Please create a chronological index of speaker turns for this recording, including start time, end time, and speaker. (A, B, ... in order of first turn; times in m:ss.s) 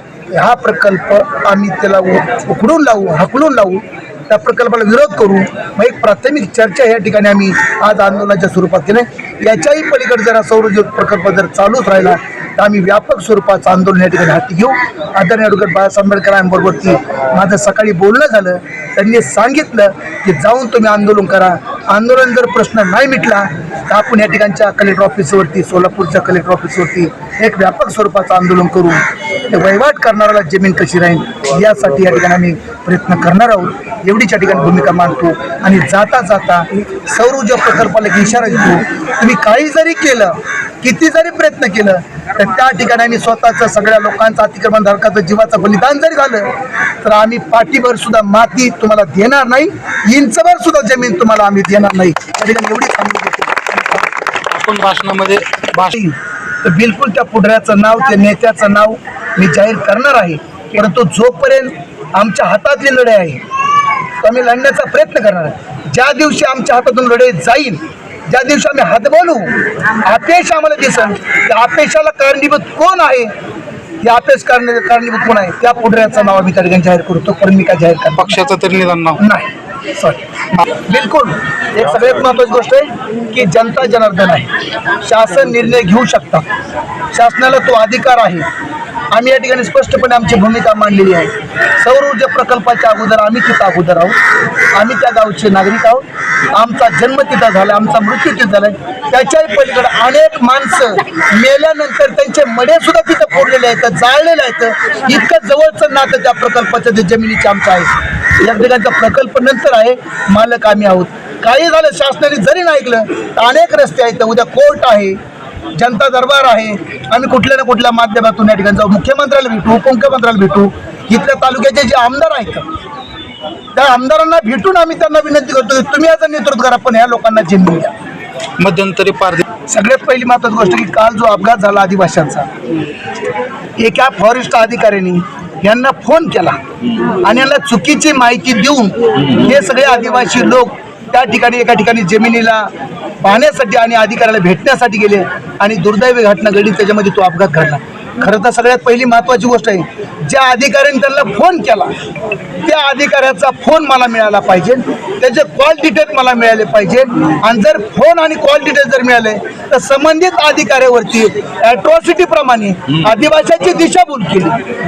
0:00.3-0:46.5 A
0:47.0-0:54.0 A
0:54.5-0:55.9 B
0:55.9-1:03.4 A
1:04.2-1:13.3 A
1:14.0-1:18.4 A
1:18.2-1:19.2 B
1:19.2-1:24.5 A
1:25.0-1:26.5 A
1:27.1-1:28.4 A
1:29.1-1:34.2 A
1:34.7-1:55.2 A
1:55.8-2:02.7 A
2:03.7-2:07.9 A
2:08.6-2:09.4 B
2:09.7-2:12.5 A
2:13.8-2:16.6 A
2:17.2-2:22.7 A
2:23.2-2:31.9 A
2:32.6-2:44.6 A